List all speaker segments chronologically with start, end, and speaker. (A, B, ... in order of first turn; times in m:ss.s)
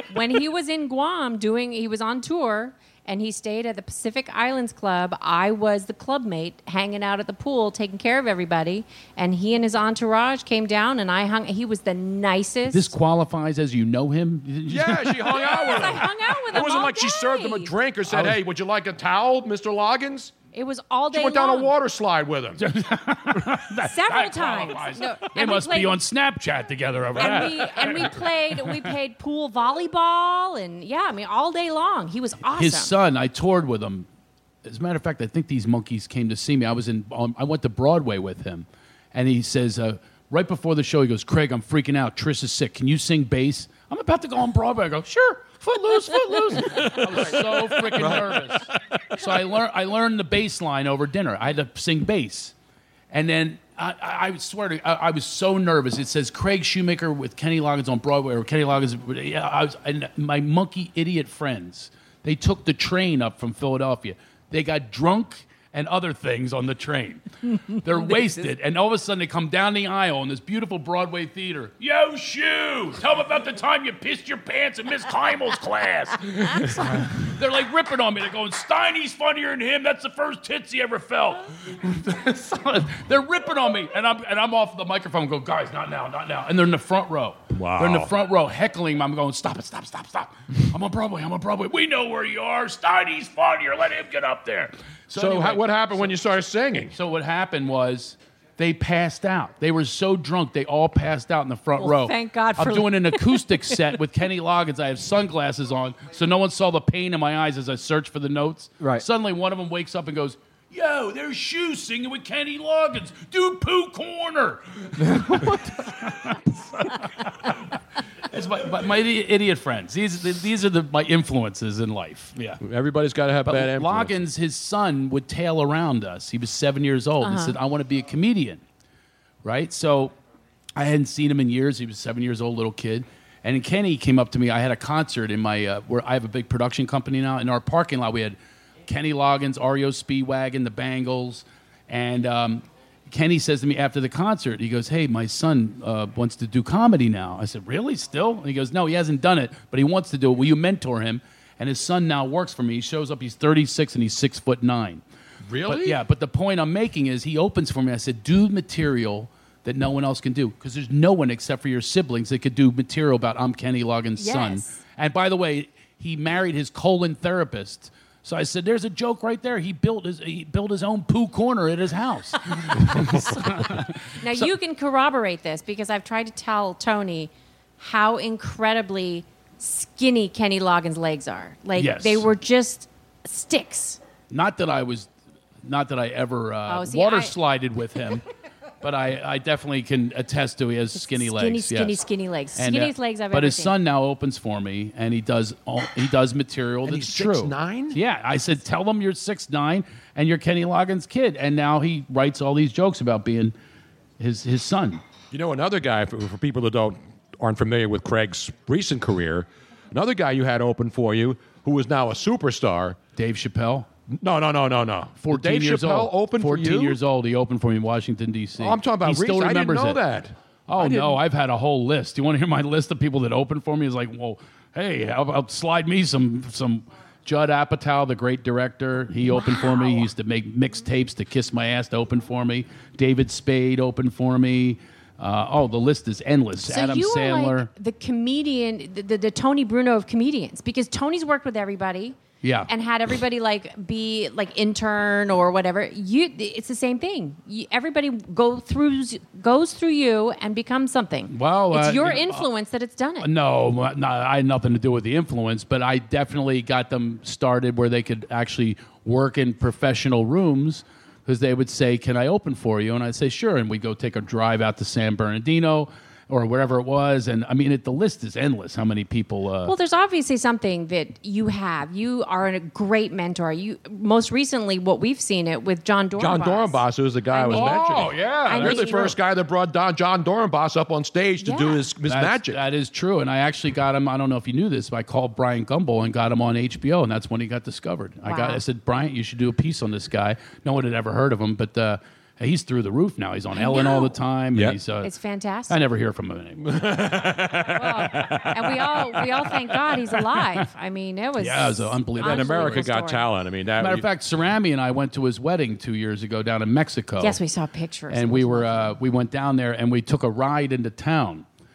0:00.1-0:12.9 A
0:12.7-0:16.0 B
0:14.7-0:20.3 C
0:15.3-0:17.7 A
0:18.0-0:18.4 B
0:20.5-0:21.7 A
0:21.1-0:22.6 C
0:22.6-0:28.9 B
0:23.8-0:26.0 A
0:27.2-0:32.9 A
0:32.5-0:34.1 B
0:34.6-0:52.5 B
0:46.7-0:48.4 C
0:53.1-1:36.2 B
1:27.5-1:28.1 C
1:35.1-1:36.9 C
1:36.9-1:57.7 B
1:41.8-1:43.5 A
1:58.3-2:02.6 B
2:02.6-2:04.2 C
2:03.4-2:08.6 B
2:07.2-2:07.6 A
2:09.4-2:10.1 B
2:10.8-2:35.0 B
2:35.5-2:36.0 C
2:35.6-2:54.5 B
2:44.2-2:44.8 A
2:54.2-3:04.0 A
3:01.8-3:02.3 B
3:04.3-3:05.1 B
3:05.6-3:08.2 B
3:06.7-3:07.3 A
3:08.8-3:12.0 B
3:11.0-3:13.7 A
3:12.6-3:23.5 B
3:16.8-3:18.0 C
3:24.2-3:25.0 B
3:25.3-3:33.0 C
3:33.2-3:33.9 B
3:34.2-3:37.0 C
3:35.2-3:40.0 B
3:38.6-3:41.2 C
3:40.7-3:57.7 B
3:49.3-3:50.1 A
3:56.6-4:02.2 A
4:02.4-4:02.7 B
4:02.7-4:13.3 A
4:11.3-4:12.5 B
4:13.2-4:29.7 B
4:29.6-4:39.2 A
4:36.2-4:42.6 C
4:37.5-4:39.0 B
4:41.4-4:41.8 A
4:42.0-4:55.1 B
4:48.2-4:48.6 A
4:53.5-4:54.2 A
4:55.0-4:55.8 A
4:55.7-4:56.8 B
4:56.6-4:58.4 C
4:57.8-5:03.2 A
4:58.2-4:59.8 B
5:01.4-5:02.9 B
5:02.2-5:04.0 C
5:03.8-5:07.4 B
5:07.2-5:08.9 A
5:08.1-5:11.4 B